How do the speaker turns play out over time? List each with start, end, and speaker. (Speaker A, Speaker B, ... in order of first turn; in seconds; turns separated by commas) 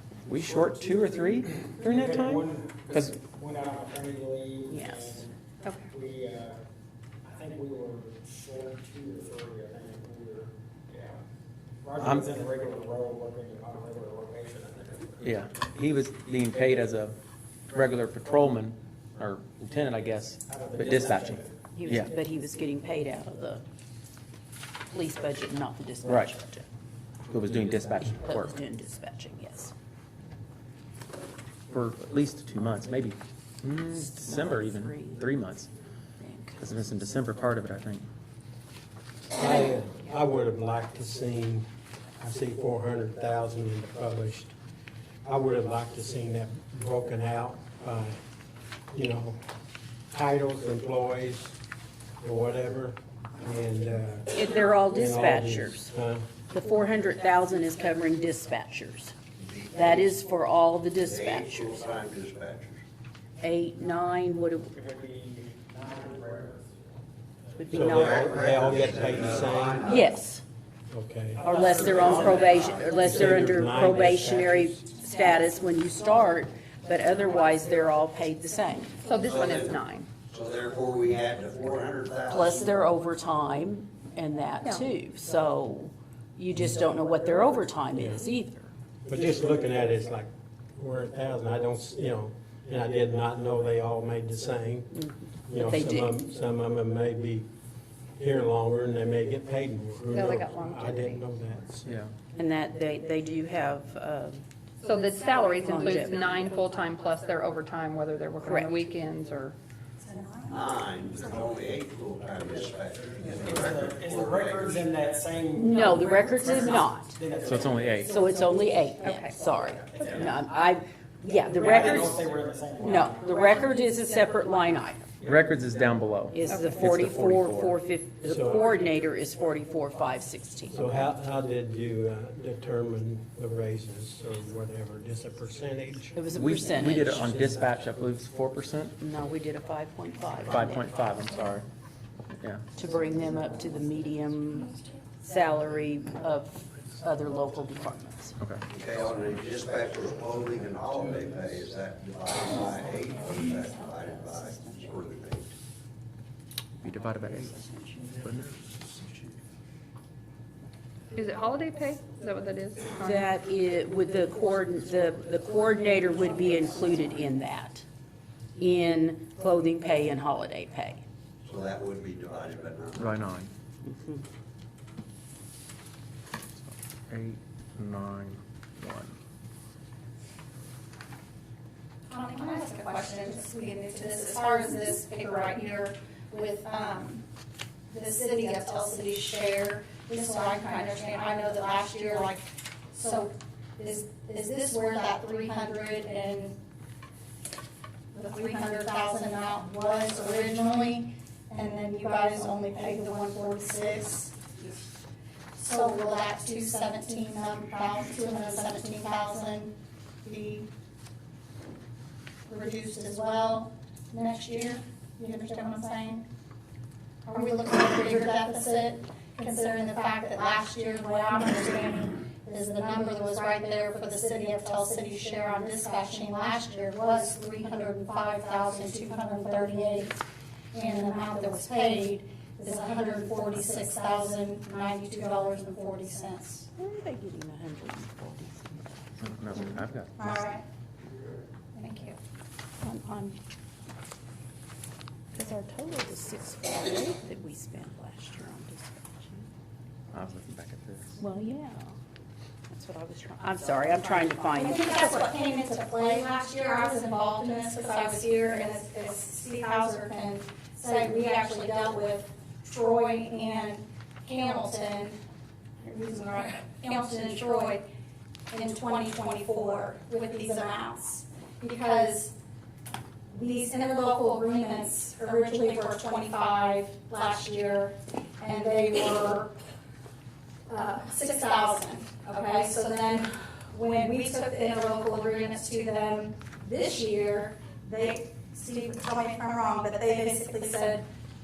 Speaker A: 0.2-3.2, Speaker B: 1.8-5.3, Speaker C: 4.7-5.2, Speaker B: 5.9-6.6, Speaker B: 7.2-11.2, Speaker B: 11.8-15.3, Speaker A: 12.0-12.3, Speaker A: 15.2-17.1, Speaker A: 17.7-22.1, Speaker B: 20.5-21.5, Speaker C: 21.7-23.6, Speaker C: 24.9-26.7, Speaker A: 26.0-26.3, Speaker A: 27.3-28.5, Speaker C: 28.2-29.7, Speaker A: 31.7-35.7, Speaker C: 33.9-35.3, Speaker C: 36.2-36.6, Speaker A: 36.6-38.0, Speaker D: 39.3-41.7, Speaker D: 42.2-44.5, Speaker D: 45.2-48.2, Speaker D: 48.9-49.4, Speaker D: 50.1-51.5, Speaker D: 52.2-54.3, Speaker C: 54.3-55.9, Speaker D: 54.9-56.2, Speaker C: 56.5-59.1, Speaker E: 59.4-60.1, Speaker C: 59.7-61.9, Speaker E: 61.0-62.8, Speaker C: 63.4-64.7, Speaker B: 64.7-66.9, Speaker C: 67.6-68.4, Speaker D: 67.7-69.9, Speaker E: 67.9-69.9, Speaker C: 69.8-70.4, Speaker D: 70.9-71.6, Speaker B: 71.4-73.3, Speaker C: 71.4-78.9, Speaker E: 72.1-72.9, Speaker D: 72.9-74.8, Speaker F: 79.0-80.1, Speaker E: 79.2-79.7, Speaker E: 80.3-82.7, Speaker C: 82.3-88.7, Speaker D: 88.0-88.2, Speaker D: 89.0-97.5, Speaker C: 95.5-96.1, Speaker D: 98.2-101.9, Speaker F: 100.1-101.2, Speaker A: 101.8-102.1, Speaker C: 102.3-104.4, Speaker F: 104.8-109.5, Speaker C: 105.4-106.5, Speaker C: 108.4-108.7, Speaker G: 110.0-110.7, Speaker E: 110.5-114.8, Speaker B: 113.2-118.1, Speaker C: 115.5-117.2, Speaker A: 117.4-118.1, Speaker C: 118.0-122.2, Speaker F: 119.0-119.4, Speaker B: 121.5-123.4, Speaker C: 122.8-125.1, Speaker A: 125.2-127.7, Speaker C: 126.3-131.1, Speaker D: 128.2-128.7, Speaker D: 130.7-137.8, Speaker C: 136.2-137.3, Speaker A: 136.3-138.9, Speaker C: 139.0-140.9, Speaker A: 140.4-141.7, Speaker A: 142.4-142.6, Speaker C: 142.7-148.3, Speaker E: 148.7-155.5, Speaker A: 156.8-157.6, Speaker A: 158.1-158.5, Speaker F: 161.1-163.2, Speaker C: 163.0-167.8, Speaker C: 168.6-171.0, Speaker E: 171.4-173.2, Speaker A: 172.9-173.5, Speaker C: 173.8-174.2, Speaker A: 177.1-179.1, Speaker G: 182.1-187.2, Speaker G: 187.9-196.6, Speaker G: 198.1-204.7, Speaker G: 205.5-210.7, Speaker G: 212.5-216.3, Speaker G: 217.2-230.2, Speaker G: 230.7-236.7, Speaker C: 236.8-239.3, Speaker A: 239.2-240.3, Speaker G: 240.2-240.6, Speaker G: 241.7-242.2, Speaker C: 242.8-243.4, Speaker C: 245.3-249.5, Speaker A: 250.1-251.2, Speaker C: 251.2-252.0, Speaker C: 252.7-255.3, Speaker G: 254.4-265.2, Speaker G: 265.8-267.9, Speaker G: 268.5-272.3, Speaker G: 273.3-279.6, Speaker G: 280.7-291.1